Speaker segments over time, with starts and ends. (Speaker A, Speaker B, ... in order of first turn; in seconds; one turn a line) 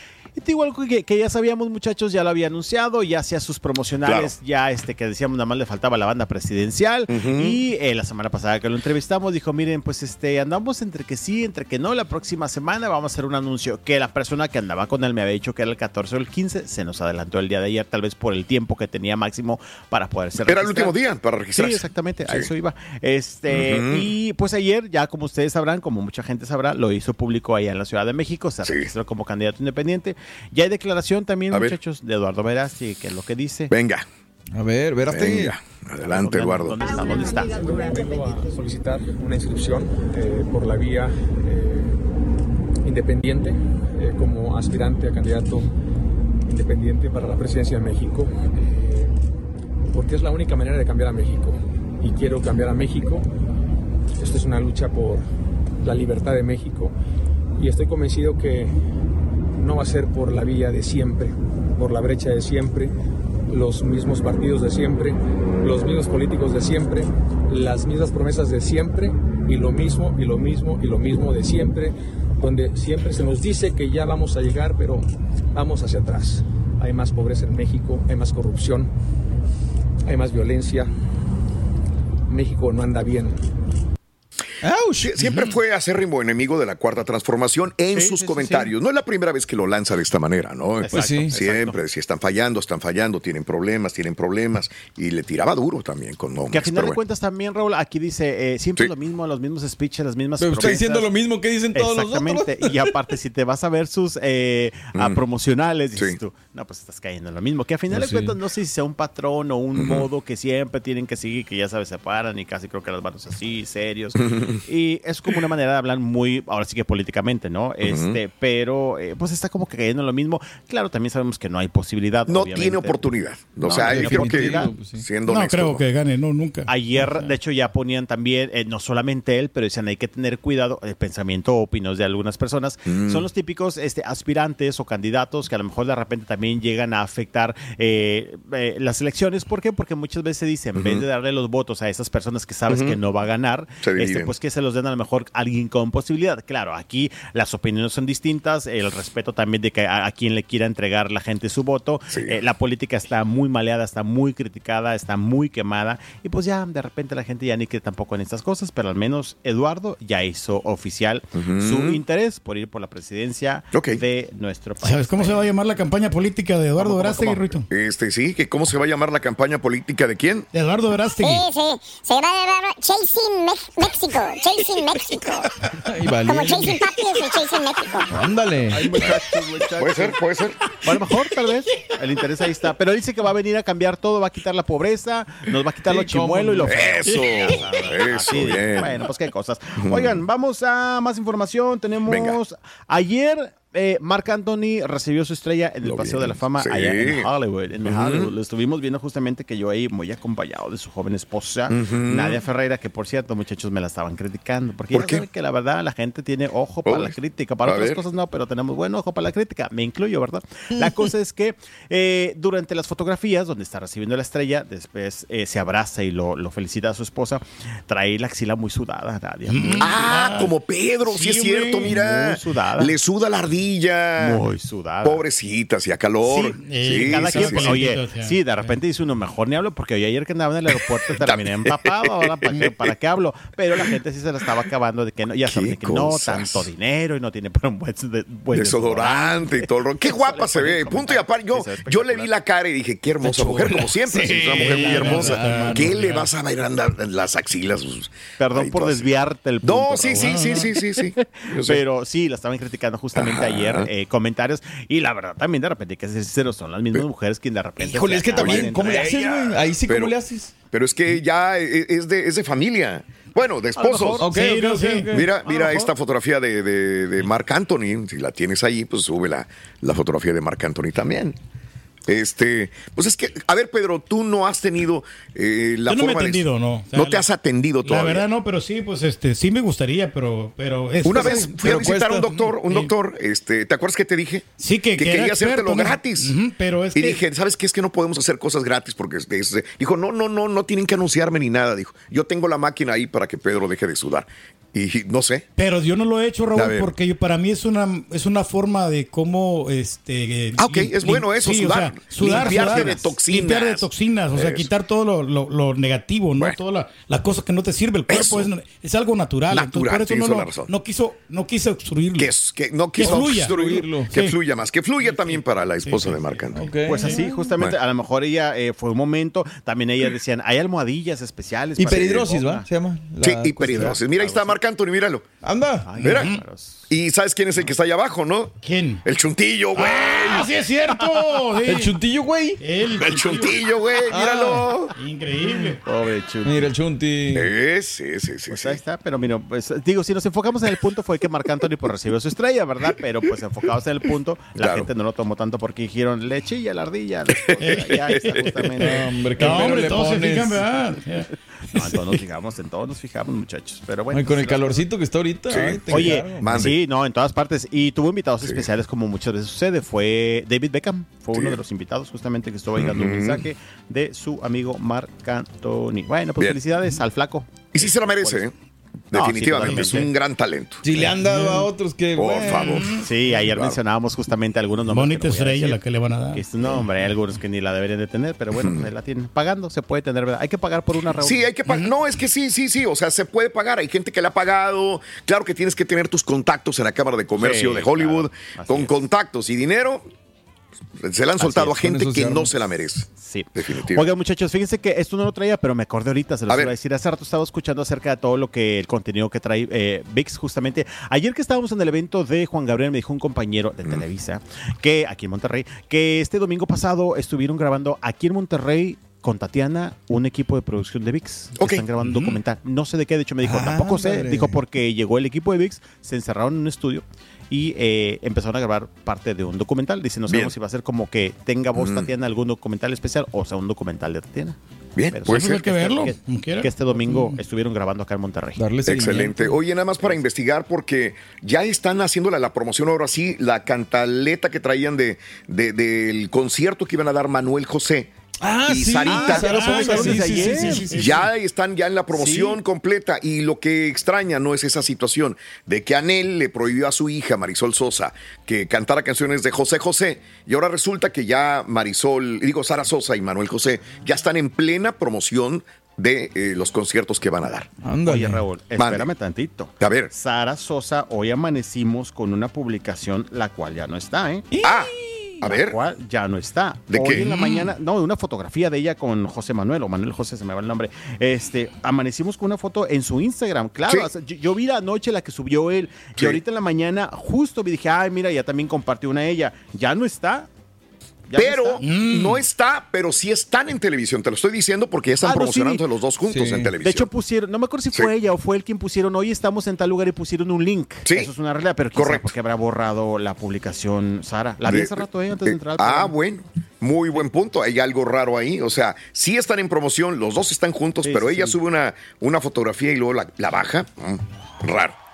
Speaker A: 0.3-21.0
Speaker B: 4.0-4.3
Speaker B: 7.1-7.6
Speaker B: 20.4-22.5
Speaker A: 21.5-33.7
Speaker B: 23.5-24.1
Speaker B: 28.6-28.9
Speaker B: 31.5-31.8
Speaker B: 33.7-34.0
Speaker C: 34.5-35.5
Speaker B: 35.1-36.8
Speaker A: 36.0-37.6
Speaker D: 37.5-42.0
Speaker D: 42.8-45.7
Speaker D: 46.4-49.2
Speaker D: 49.9-53.3
Speaker D: 54.2-55.3
Speaker D: 55.8-56.9
Speaker D: 57.6-58.8
Speaker D: 59.5-62.9
Speaker D: 63.5-78.9
Speaker D: 80.0-80.9
Speaker D: 82.3-83.4
Speaker C: 84.6-85.3
Speaker B: 85.0-97.0
Speaker A: 87.9-88.7
Speaker A: 90.8-91.8
Speaker C: 90.9-91.3
Speaker A: 96.5-101.1
Speaker C: 100.4-103.0
Speaker A: 101.7-123.1
Speaker B: 104.9-105.2
Speaker C: 107.9-108.3
Speaker B: 109.8-110.1
Speaker B: 114.2-114.6
Speaker B: 117.8-118.2
Speaker B: 122.3-125.8
Speaker A: 123.6-124.7
Speaker C: 123.7-125.0
Speaker E: 125.3-126.7
Speaker A: 126.7-165.5
Speaker B: 132.8-133.3
Speaker B: 140.7-141.1
Speaker B: 142.7-143.0
Speaker B: 143.8-144.3
Speaker B: 152.1-152.4
Speaker B: 161.3-162.0
Speaker B: 163.7-164.0
Speaker E: 164.8-167.7
Speaker A: 166.8-167.6
Speaker B: 167.7-170.5
Speaker E: 170.5-171.4
Speaker F: 171.2-175.5
Speaker C: 175.8-176.8
Speaker F: 176.2-178.1
Speaker C: 178.1-179.9
Speaker A: 178.7-180.1
Speaker B: 179.8-180.6
Speaker A: 180.8-220.1
Speaker C: 185.9-187.1
Speaker B: 186.6-189.0
Speaker B: 189.8-190.2
Speaker B: 192.1-192.4
Speaker B: 195.8-197.3
Speaker B: 197.8-198.3
Speaker B: 201.7-202.4
Speaker B: 204.9-205.2
Speaker B: 206.8-208.0
Speaker E: 219.5-220.5
Speaker B: 219.8-224.4
Speaker E: 221.1-221.9
Speaker A: 221.8-222.9
Speaker A: 224.2-225.2
Speaker B: 225.0-227.9
Speaker A: 226.2-242.3
Speaker E: 226.6-228.4
Speaker B: 231.2-232.9
Speaker B: 235.4-236.7
Speaker B: 238.5-251.8
Speaker E: 244.2-245.9
Speaker A: 244.5-245.6
Speaker C: 244.8-245.8
Speaker A: 248.4-259.2
Speaker E: 250.2-250.7
Speaker B: 253.1-253.9
Speaker C: 257.8-260.5
Speaker B: 258.3-260.1
Speaker B: 260.7-264.2
Speaker A: 263.8-264.3
Speaker C: 264.2-265.3
Speaker E: 264.3-265.1
Speaker B: 265.1-271.4
Speaker A: 265.4-265.9
Speaker B: 272.1-278.2
Speaker E: 275.9-277.2
Speaker E: 277.8-281.9
Speaker B: 281.0-286.3
Speaker C: 281.1-282.5
Speaker E: 284.6-287.2
Speaker B: 286.9-295.4
Speaker E: 295.6-312.3
Speaker B: 296.5-296.9
Speaker B: 300.6-304.7
Speaker A: 302.2-303.1
Speaker B: 308.1-308.5
Speaker B: 309.5-310.7
Speaker B: 312.1-316.6
Speaker E: 313.0-313.6
Speaker C: 313.0-314.1
Speaker E: 314.1-314.3
Speaker E: 315.8-317.2
Speaker C: 316.5-317.2
Speaker A: 316.8-322.7
Speaker C: 321.8-324.0
Speaker B: 323.2-325.2
Speaker A: 323.6-324.6
Speaker C: 325.4-326.0
Speaker A: 325.9-326.9
Speaker B: 326.0-326.3
Speaker E: 326.1-326.4
Speaker B: 326.9-330.5
Speaker E: 328.6-329.0
Speaker E: 329.7-331.9
Speaker C: 331.6-332.6
Speaker E: 332.6-333.6
Speaker B: 332.9-334.9
Speaker C: 334.1-334.9
Speaker E: 334.9-335.8
Speaker A: 335.8-336.7
Speaker C: 336.4-337.5
Speaker B: 337.3-338.8
Speaker A: 338.5-349.7
Speaker B: 344.6-344.9
Speaker B: 347.4-348.5
Speaker E: 347.6-351.9
Speaker C: 348.8-350.6
Speaker A: 351.7-354.8
Speaker C: 354.1-356.7
Speaker B: 355.5-356.8
Speaker A: 355.9-368.4
Speaker B: 361.3-361.6
Speaker B: 362.8-363.4
Speaker B: 367.7-368.5
Speaker B: 369.1-370.8
Speaker A: 369.1-370.1
Speaker C: 370.8-372.9
Speaker E: 370.9-371.7
Speaker B: 372.1-373.8
Speaker A: 372.9-375.8
Speaker E: 374.9-376.4
Speaker A: 376.3-381.5
Speaker B: 378.5-378.9
Speaker B: 381.2-390.0
Speaker A: 387.4-389.0
Speaker B: 391.0-394.1
Speaker C: 391.5-392.5
Speaker A: 393.2-424.6
Speaker B: 396.5-396.7
Speaker B: 411.6-412.1
Speaker C: 413.4-414.6
Speaker B: 420.3-420.5
Speaker B: 421.7-422.1
Speaker B: 424.9-425.6
Speaker A: 425.1-428.6
Speaker E: 425.2-426.7
Speaker C: 428.6-429.6
Speaker B: 428.9-438.1
Speaker C: 438.4-441.2
Speaker B: 438.6-440.2
Speaker A: 439.0-440.8
Speaker E: 439.9-441.1
Speaker B: 440.9-457.7
Speaker A: 442.1-442.6
Speaker C: 457.8-458.4
Speaker A: 458.0-464.4
Speaker B: 458.8-459.1
Speaker B: 459.8-460.1
Speaker C: 464.5-465.3
Speaker B: 464.6-465.8
Speaker A: 465.4-480.5
Speaker B: 466.9-467.3
Speaker E: 467.1-467.7
Speaker A: 481.3-481.8
Speaker B: 481.3-487.1
Speaker E: 481.8-482.4
Speaker A: 485.2-485.8
Speaker C: 486.3-486.7
Speaker A: 486.8-496.1
Speaker B: 491.1-491.3
Speaker B: 491.9-492.3
Speaker B: 494.6-504.9
Speaker A: 501.0-501.6